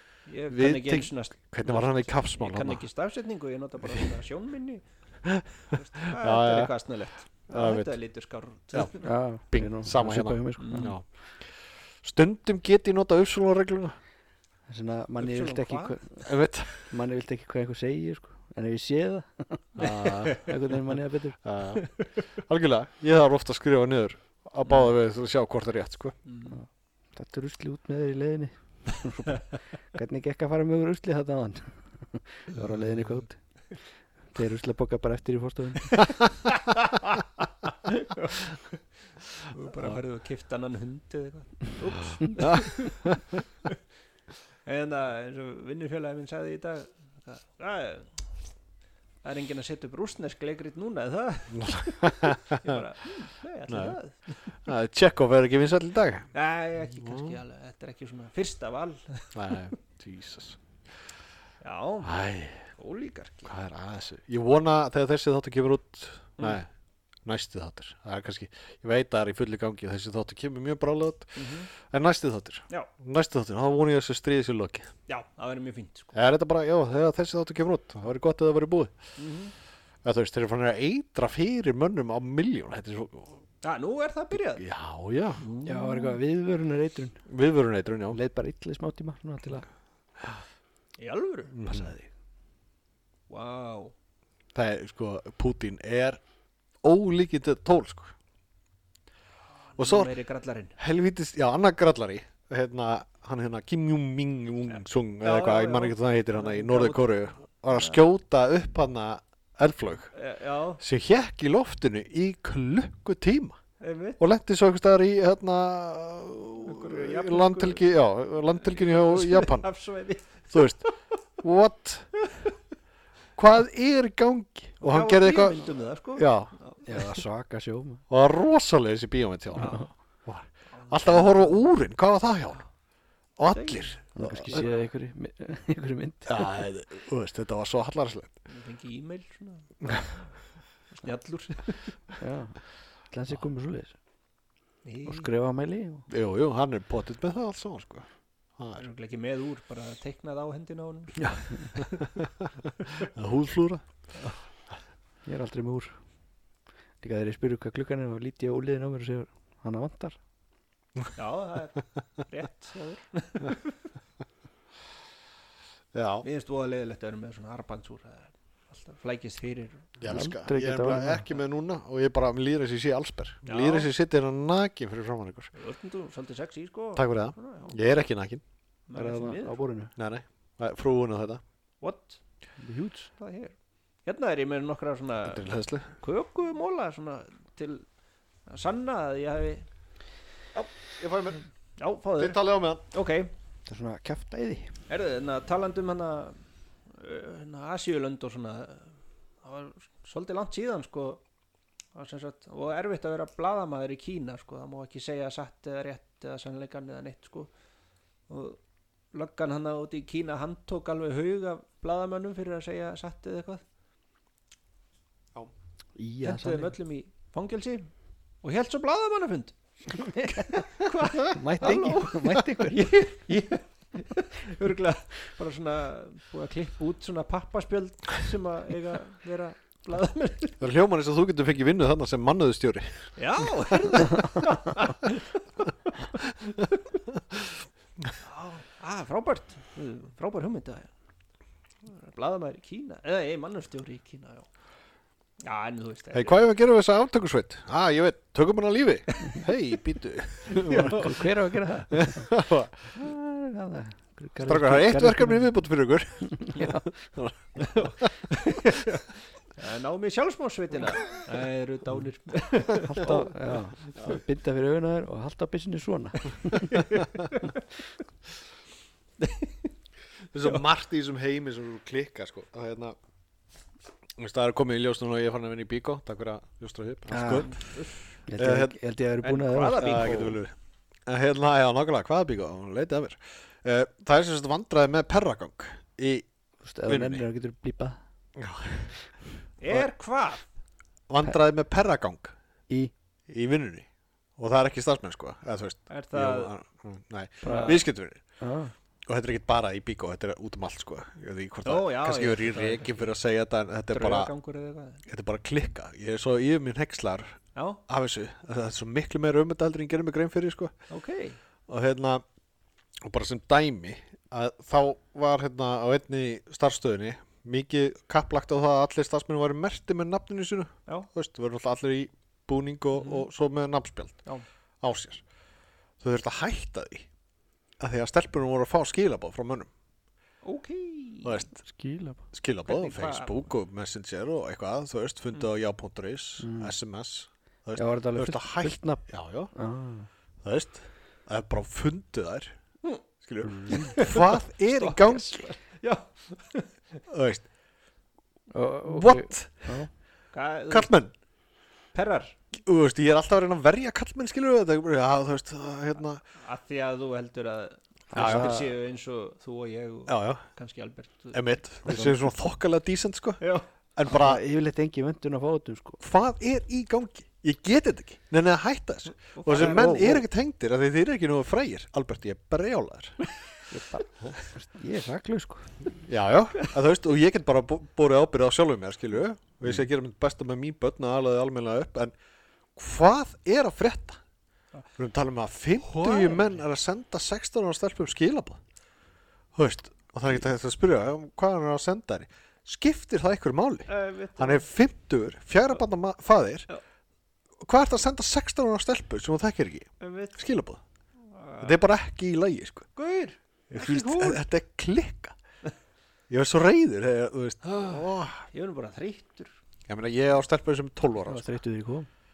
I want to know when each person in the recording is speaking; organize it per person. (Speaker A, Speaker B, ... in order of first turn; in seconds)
Speaker A: 0.3-4.8, 5.7-9.1, 10.6-10.9, 15.2-16.0, 20.2-20.5, 21.8-22.1, 24.6-24.9, 26.2-26.6, 36.4-37.2, 37.9-38.8, 39.5-43.1, 44.6-48.3, 49.2-54.6, 56.3-59.6, 61.6-62.1, 62.8-63.5, 71.3-71.7, 75.1-76.2, 79.2-79.5, 83.6-84.6, 85.4-86.2, 91.0-92.0, 93.3-93.9, 99.7-100.8, 105.2-108.0, 110.1-110.8, 113.8-114.2, 116.6-117.9, 118.5-120.9, 124.8-127.2, 129.6-129.9, 130.7-131.7, 133.5-134.8, 138.5-140.3, 140.9-142.0, 144.8-145.3, 148.8-152.2, 161.1-163.8, 166.2-169.9, 173.4-173.9, 175.5-177.8, 178.9-179.6, 181.8-182.2, 183.2-187.8, 188.5-189.7, 191.8-193.3, 194.9-201.2, 201.9-207.5, 208.3-208.6, 209.1-213.6, 216.2-217.9, 218.4-230.6, 233.2-236.8, 238.2-240.9, 241.8-244.5, 245.4-246.4, 250.5-251.3, 257.6-263.3, 266.7-267.6, 269.2-269.7, 277.4-278.0, 279.2-280.4, 289.6-290.5, 295.9-296.5, 297.4-297.8, 301.6-303.1, 303.9-305.0, 307.6-307.8, 310.9-311.4, 323.0-323.3, 330.4-331.4, 332.6-333.4, 343.7-346.7, 350.3-350.9, 351.9-352.4, 356.4-361.4, 363.4-363.7, 369.2-370.2, 385.8-386.6, 393.9-394.6, 400.0-400.4, 401.3-401.8, 402.9-404.4, 407.6-409.6
Speaker B: 0.5-2.8, 5.2-6.7, 7.5-7.9, 9.4-11.1, 12.0-13.9, 16.2-16.9, 19.8-20.5, 21.4-26.1, 42.4-43.4, 51.5-52.8, 53.7-54.0, 54.6-56.3, 56.9-57.4, 59.3-60.6, 62.0-62.7, 63.5-66.7, 67.2-74.9, 76.1-78.9, 80.0-83.4, 84.3-85.4, 87.3-88.2, 91.5-92.0, 94.5-96.2, 96.8-98.1, 99.8-100.1, 100.8-110.1, 110.8-113.6, 114.2-119.7, 120.5-120.8, 121.4-122.1, 123.4-126.5, 128.1-132.6, 133.4-134.6, 136.3-138.3, 146.1-148.1, 148.6-148.8, 153.0-154.1, 165.9-166.3, 170.0-175.5, 176.9-178.4, 179.9-181.4, 185.2-185.9, 190.6-191.4, 192.2-192.8, 230.6-233.8, 246.1-251.1, 252.0-252.7, 254.4-258.1, 270.3-272.9, 274.2-277.6, 278.4-278.8, 279.8-280.5, 281.1-286.3, 286.9-287.2, 288.4-288.9, 291.1-292.3, 293.3-298.2, 299.1-304.3, 305.1-310.7, 311.7-312.2, 313.0-324.2, 324.8-325.2, 326.0-327.1, 327.8-329.7, 331.2-331.6, 332.3-339.5, 340.4-342.6, 343.2-345.4, 347.1-347.5, 348.9-349.8, 350.7-351.1, 352.6-356.2, 358.1-358.6, 360.1-360.4, 361.3-363.4, 363.9-364.4, 366.0-373.3, 376.0-382.1, 382.8-384.2, 385.0-388.6, 389.6-396.7, 397.6-400.8, 401.6-402.9, 403.7-405.4, 406.3-408.4, 409.9-411.5
Speaker C: 9.0-10.9, 14.7-16.2, 16.9-21.4, 26.5-33.4, 34.3-36.0, 85.6-87.2, 88.1-89.7, 126.8-128.0, 134.2-136.6, 142.2-143.9, 145.1-146.1, 155.3-155.9, 157.0-160.2, 170.1-171.2, 178.9-179.9, 182.6-183.1, 193.7-194.7, 215.9-216.7, 220.0-222.9, 250.6-252.3, 252.9-255.5, 256.4-256.8, 262.8-266.8, 277.1-277.5, 278.3-280.3, 286.6-288.0, 297.4-297.8, 298.4-298.7, 331.6-332.3, 336.4-336.7, 337.7-340.1, 343.4-343.9, 348.5-349.9, 358.1-358.7, 361.9-362.3, 364.1-366.0, 369.8-370.2, 373.7-375.7, 411.2-412.1